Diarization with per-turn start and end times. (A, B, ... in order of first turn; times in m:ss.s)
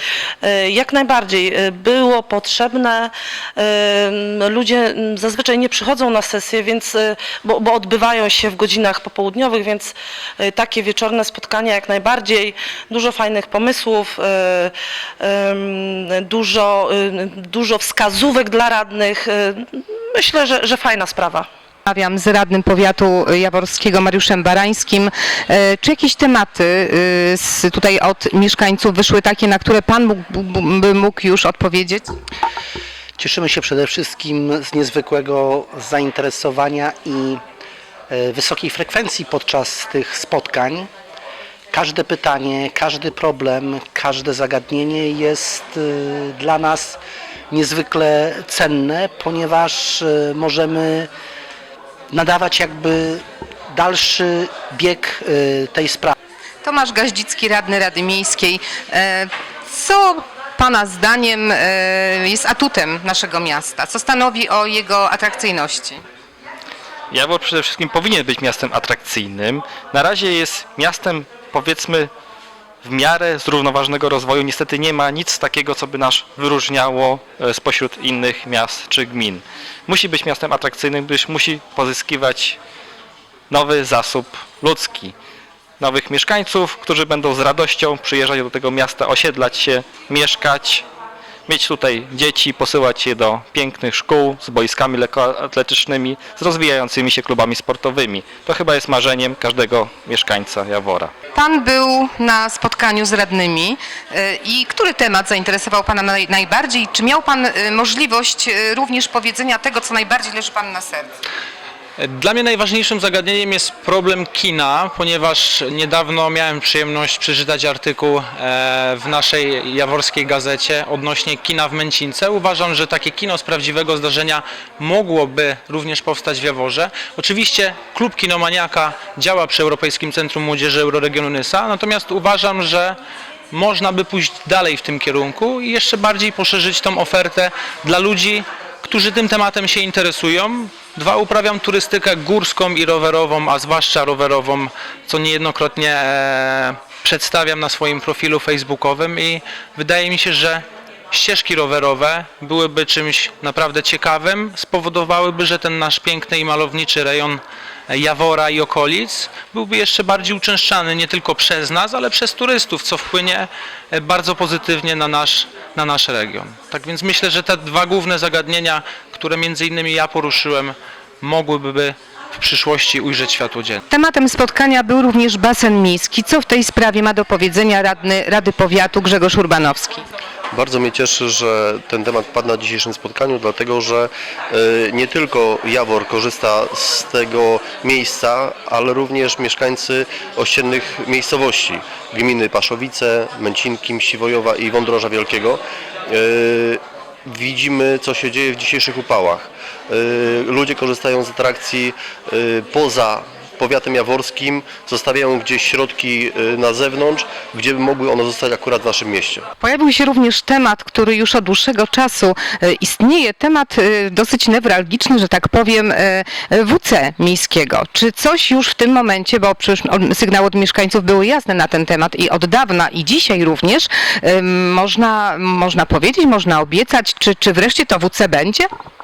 0:00.4-0:21.5 A
0:21.8-0:32.0 B
0:33.2-0:37.4 C
0:38.1-0:40.9 C
0:41.7-0:51.1 C
0:52.1-0:56.1 C
0:56.6-1:06.0 B
1:07.1-1:12.1 D
1:12.8-1:22.6 D
1:23.5-1:25.1 D
1:25.8-1:30.8 D
1:31.5-1:41.1 D
1:41.3-1:51.2 B
1:52.0-2:13.0 E
2:13.5-2:53.8 E
2:53.9-3:00.0 B
3:00.5-3:29.5 F
3:29.6-3:48.7 B